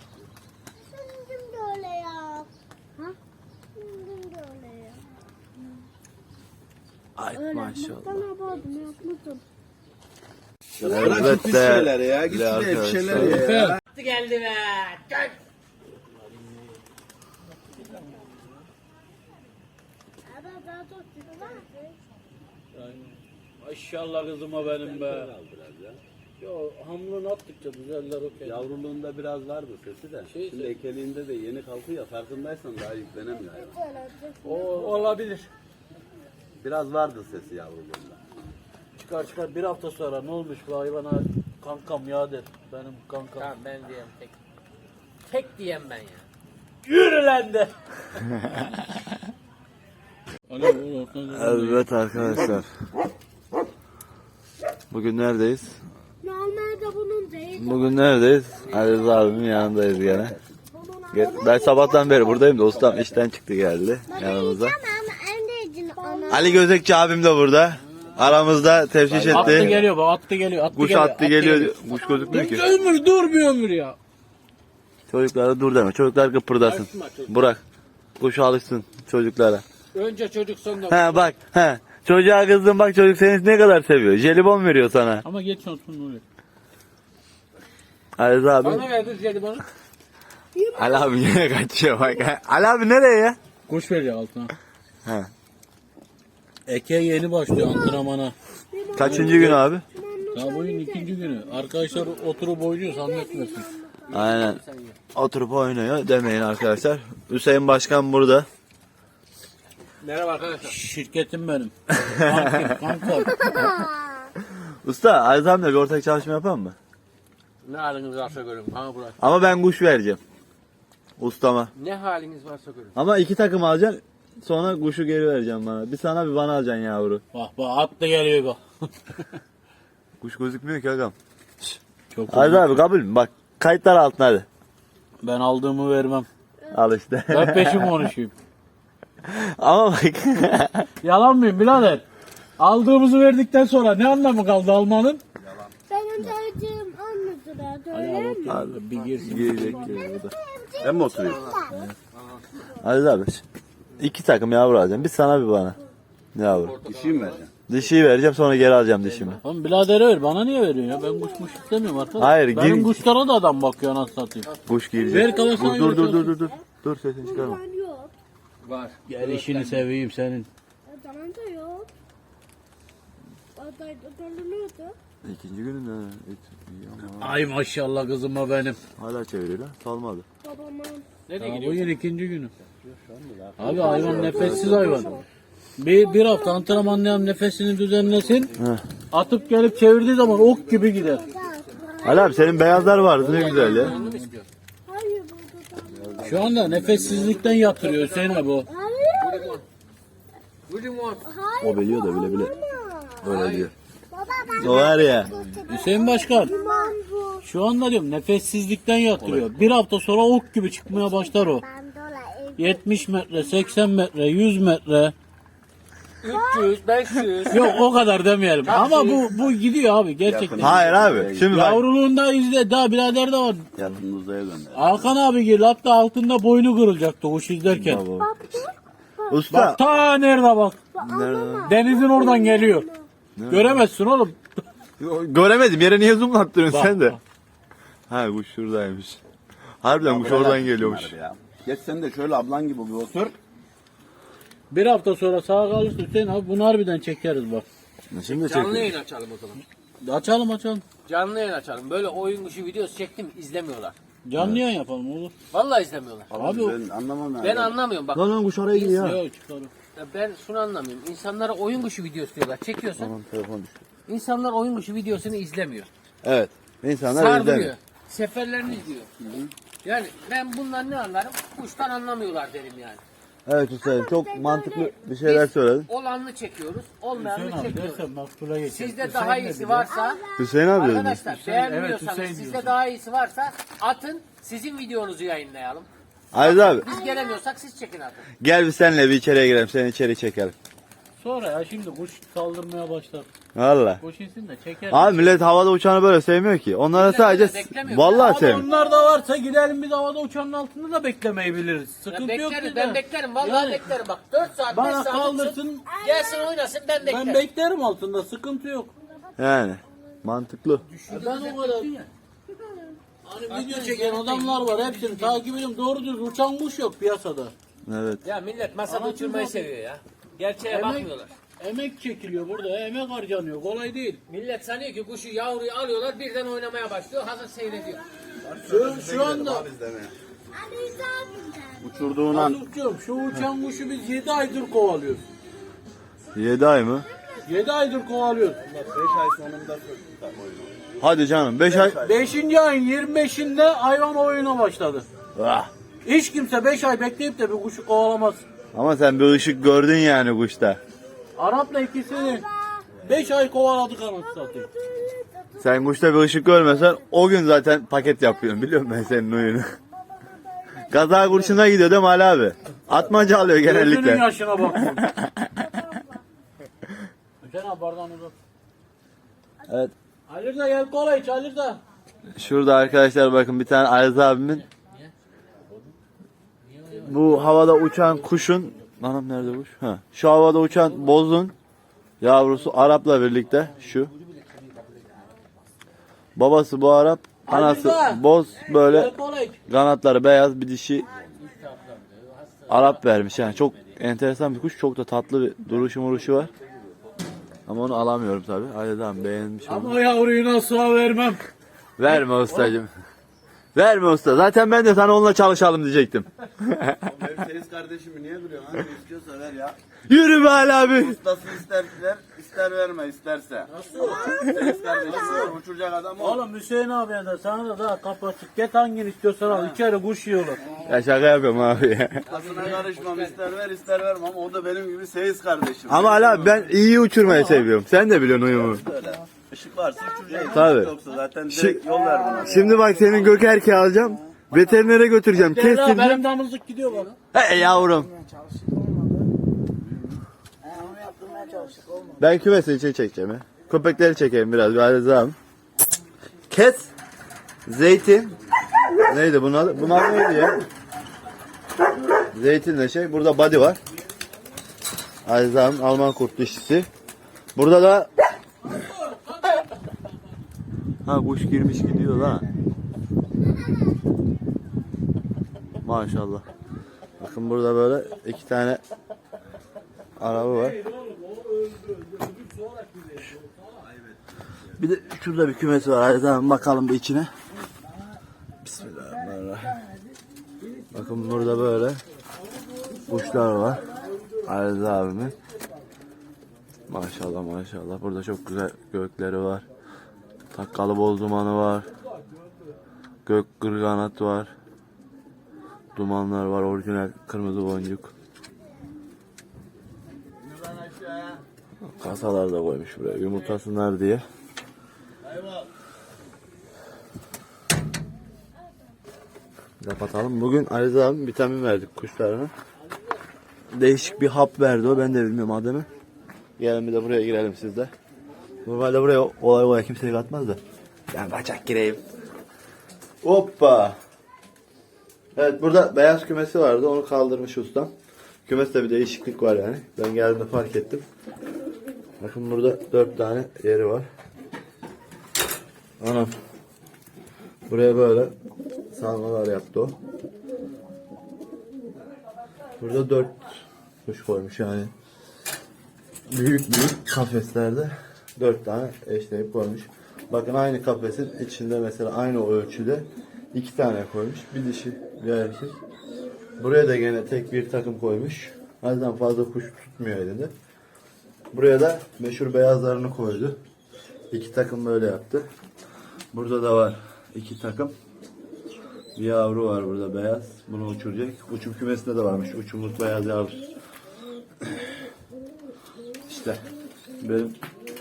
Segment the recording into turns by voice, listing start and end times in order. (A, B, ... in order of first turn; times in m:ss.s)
0:00.9-0:03.2 A
0:03.8-0:05.0 A
0:07.2-0:08.3 B
0:07.3-0:09.4 A
0:10.8-0:11.3 C
0:10.8-0:13.5 B
0:10.8-0:13.8 D
0:13.1-0:15.4 E
0:16.2-0:16.7 C
0:17.7-0:18.4 C
0:20.3-0:22.0 A
0:22.7-0:25.3 C
0:24.6-0:26.0 D
0:26.4-0:28.7 C
0:28.4-0:33.7 D
0:30.3-0:30.8 C
0:33.6-0:34.7 A
0:34.4-0:35.5 C
0:36.6-0:38.2 D
0:39.0-0:43.5 C
0:43.4-0:44.4 E
0:45.2-0:46.3 E
0:46.8-0:47.7 C
0:50.5-0:51.9 C
0:51.3-0:52.7 B
0:54.9-0:55.8 B
0:56.2-0:57.9 A
0:57.5-1:00.4 B
1:00.0-1:00.6 D
1:00.7-1:02.6 A
1:01.1-1:04.8 B
1:02.7-1:03.2 D
1:04.1-1:06.7 A
1:06.3-1:09.8 B
1:09.1-1:09.9 D
1:09.3-1:14.0 C
1:10.7-1:12.7 B
1:12.3-1:13.0 A
1:15.1-1:17.6 B
1:16.6-1:17.5 E
1:18.2-1:19.6 B
1:19.9-1:21.3 E
1:20.9-1:25.2 B
1:25.2-1:26.2 C
1:28.2-1:28.9 B
1:28.6-1:29.6 E
1:30.6-1:31.1 A
1:30.7-1:33.4 B
1:33.7-1:34.5 C
1:35.0-1:35.3 B
1:36.7-1:38.4 C
1:37.5-1:38.0 A
1:38.7-1:39.2 A
1:38.9-1:39.8 B
1:39.0-1:39.6 C
1:39.9-1:44.2 A
1:40.3-1:43.7 C
1:44.1-1:45.0 E
1:44.1-1:44.6 B
1:45.1-1:48.5 B
1:50.0-1:50.8 E
1:50.6-1:53.5 C
1:52.0-1:52.8 B
1:53.5-1:54.3 A
1:54.4-1:56.8 B
1:57.6-1:59.2 E
1:59.2-2:00.2 B
2:01.2-2:01.7 B
2:01.8-2:03.0 E
2:03.0-2:07.2 B
2:07.3-2:09.3 C
2:10.2-2:11.2 B
2:12.1-2:12.8 C
2:12.3-2:14.5 B
2:15.2-2:16.3 C
2:16.7-2:18.0 B
2:17.3-2:18.3 C
2:19.2-2:20.9 B
2:21.0-2:22.0 C
2:22.6-2:25.2 C
2:25.4-2:25.7 D
2:25.9-2:28.6 A
2:27.9-2:30.0 C
2:28.5-2:30.3 B
2:29.9-2:31.8 A
2:30.8-2:31.6 D
2:32.8-2:33.4 B
2:34.0-2:35.8 B
2:36.4-2:36.8 B
2:36.5-2:37.4 E
2:36.8-2:37.5 D
2:37.7-2:39.4 B
2:39.3-2:44.5 C
2:40.9-2:42.3 A
2:42.2-2:43.0 B
2:44.7-2:47.6 B
2:45.1-2:46.4 C
2:47.2-2:48.1 A
2:48.6-2:49.9 E
2:49.1-2:50.5 C
2:50.9-2:51.9 A
2:53.6-2:55.0 A
2:55.2-2:57.4 B
2:57.1-2:58.8 C
2:59.0-3:00.3 B
3:00.4-3:01.1 A
3:01.3-3:02.0 E
3:01.3-3:02.5 C
3:02.6-3:05.0 D
3:03.6-3:05.1 C
3:03.7-3:05.2 A
3:03.9-3:05.2 B
3:05.8-3:08.5 C
3:05.9-3:07.5 A
3:09.1-3:11.3 C
3:09.4-3:12.6 A
3:10.5-3:11.8 E
3:12.0-3:14.0 B
3:12.8-3:14.2 C
3:13.2-3:14.5 E
3:14.9-3:16.4 A
3:15.9-3:17.9 D
3:16.2-3:18.7 C
3:17.8-3:18.5 E
3:18.7-3:19.6 A
3:19.2-3:19.6 E
3:20.7-3:21.3 E
3:21.3-3:23.3 A
3:21.6-3:22.6 B
3:23.2-3:23.7 B
3:23.3-3:23.7 E
3:24.1-3:27.5 A
3:24.6-3:25.4 B
3:25.7-3:26.6 C
3:27.4-3:31.6 C
3:29.2-3:29.6 D
3:30.9-3:33.7 A
3:32.6-3:35.1 C
3:36.2-3:37.8 E
3:36.3-3:36.7 A
3:37.5-3:40.8 C
3:38.6-3:39.2 E
3:40.2-3:41.5 D
3:40.6-3:41.9 B
3:41.5-3:43.7 C
3:43.8-3:44.0 B
3:43.8-3:45.1 D
3:44.7-3:48.0 C
3:47.7-3:48.3 B
3:48.2-3:49.4 A
3:49.3-3:49.8 B
3:49.5-3:50.8 C
3:50.9-3:53.0 A
3:51.0-3:51.8 B
3:51.6-3:52.9 C
3:53.4-3:53.9 B
3:53.5-3:54.6 C
3:55.0-3:57.2 B
3:56.7-3:57.2 C
3:58.1-3:59.2 B
3:59.8-4:01.1 B
3:59.9-4:03.4 D
4:04.7-4:07.6 C
4:08.1-4:08.9 B
4:08.3-4:09.6 E
4:10.0-4:10.8 C
4:11.1-4:14.0 E
4:14.2-4:15.3 C
4:15.5-4:16.3 E
4:16.3-4:17.8 D
4:16.3-4:16.8 C
4:17.4-4:18.3 E
4:18.1-4:19.2 B
4:18.8-4:19.7 C
4:20.0-4:23.1 E
4:23.0-4:23.8 B
4:24.1-4:25.9 E
4:26.2-4:27.7 B
4:27.1-4:29.1 E
4:29.2-4:29.5 D
4:29.8-4:33.0 E
4:33.5-4:35.9 B
4:33.8-4:35.0 A
4:35.2-4:38.0 E
4:37.2-4:39.9 C
4:38.7-4:40.2 E
4:39.9-4:40.5 A
4:40.4-4:41.2 B
4:40.7-4:48.3 E
4:41.3-4:42.8 C
4:46.3-4:46.9 B
4:46.9-4:47.3 A
4:48.4-4:50.5 B
4:51.2-4:53.3 C
4:53.6-4:54.0 B
4:54.0-4:55.4 C
4:54.9-4:58.7 B
4:56.9-4:58.5 E
4:58.2-5:03.9 C
4:58.7-4:59.1 A
5:02.1-5:07.4 E
5:04.7-5:05.9 C
5:06.0-5:06.4 A
5:07.0-5:08.9 C
5:09.4-5:10.8 B
5:10.8-5:12.1 E
5:11.1-5:11.9 C
5:13.2-5:17.5 C
5:13.5-5:15.4 E
5:17.9-5:18.2 B
5:18.2-5:21.3 E
5:18.9-5:19.7 C
5:20.7-5:24.2 C
5:24.3-5:28.0 E
5:28.4-5:30.2 D
5:28.6-5:29.7 C
5:30.5-5:32.0 A
5:31.8-5:32.6 D
5:32.3-5:35.2 C
5:36.4-5:37.1 B
5:37.4-5:38.6 C
5:38.6-5:40.9 D
5:41.0-5:42.0 B
5:41.7-5:42.3 D
5:42.0-5:45.1 C
5:45.4-5:45.7 B
5:46.0-5:48.4 C
5:48.7-5:50.8 B
5:51.4-5:52.5 C
5:52.1-5:53.0 A
5:53.0-5:54.7 C
5:54.3-5:55.6 A
5:55.6-5:59.7 B
6:00.3-6:01.0 A
6:00.9-6:04.3 B
6:03.6-6:05.1 C
6:05.0-6:05.4 B
6:05.7-6:06.2 A
6:07.4-6:08.4 C
6:09.7-6:09.9 B
6:10.3-6:11.8 C
6:12.4-6:14.6 B
6:14.7-6:15.1 E
6:16.6-6:17.3 E
6:17.0-6:21.6 B
6:20.8-6:21.2 E
6:22.2-6:24.1 B
6:23.9-6:25.4 E
6:26.4-6:29.2 B
6:27.5-6:29.6 C
6:29.7-6:31.1 B
6:31.3-6:34.0 E
6:32.7-6:36.5 B
6:36.3-6:36.9 D
6:37.7-6:40.0 B
6:39.7-6:41.5 C
6:42.0-6:42.9 B
6:42.1-6:42.8 C
6:43.8-6:47.0 B
6:47.0-6:49.8 D
6:50.1-6:51.2 B
6:50.9-6:56.4 D
6:53.7-6:55.6 C
6:56.2-7:00.6 C
6:59.5-6:59.8 D
7:00.8-7:02.2 B
7:02.3-7:06.7 D
7:02.3-7:03.4 E
7:05.9-7:08.8 B
7:07.2-7:07.7 C
7:08.5-7:13.1 D
7:10.4-7:10.9 B
7:11.5-7:11.8 B
7:12.4-7:16.2 B
7:15.3-7:17.1 C
7:17.3-7:18.1 B
7:19.8-7:20.2 D
7:20.7-7:22.1 C
7:22.2-7:25.4 B
7:26.5-7:26.9 B
7:27.7-7:28.4 B
7:29.1-7:30.6 B
7:32.3-7:33.8 B
7:35.2-7:36.9 B
7:37.6-7:38.1 B
7:41.0-7:42.5 B
7:45.8-7:46.5 B
7:47.2-7:48.8 B
7:50.2-7:50.8 B
7:50.2-7:53.7 C
7:53.9-7:54.7 D
7:54.8-7:57.3 B
7:58.6-7:59.8 B
8:00.9-8:02.0 B
8:03.1-8:03.9 B
8:04.4-8:05.4 B
8:06.9-8:09.7 B
8:10.5-8:11.9 B
8:13.2-8:14.5 B
8:16.0-8:18.1 B
8:20.4-8:21.4 D
8:22.0-8:24.2 B
8:25.3-8:25.6 D
8:29.8-8:32.5 B
8:33.7-8:35.9 B
8:36.6-8:37.9 B
8:38.6-8:40.6 B
8:41.1-8:42.0 B
8:43.2-8:44.0 B
8:45.4-8:47.9 B
8:48.5-8:51.0 B
8:52.2-8:54.1 B
8:56.0-8:56.3 B
8:57.7-8:58.3 B
8:58.9-9:00.0 B
9:02.8-9:03.4 B
9:04.0-9:04.9 B
9:06.3-9:15.8 B
9:16.6-9:20.5 B
9:21.5-9:23.6 B
9:24.3-9:25.4 B
9:26.3-9:28.0 B
9:29.2-9:33.7 B
9:36.3-9:36.6 B
9:37.2-9:37.6 B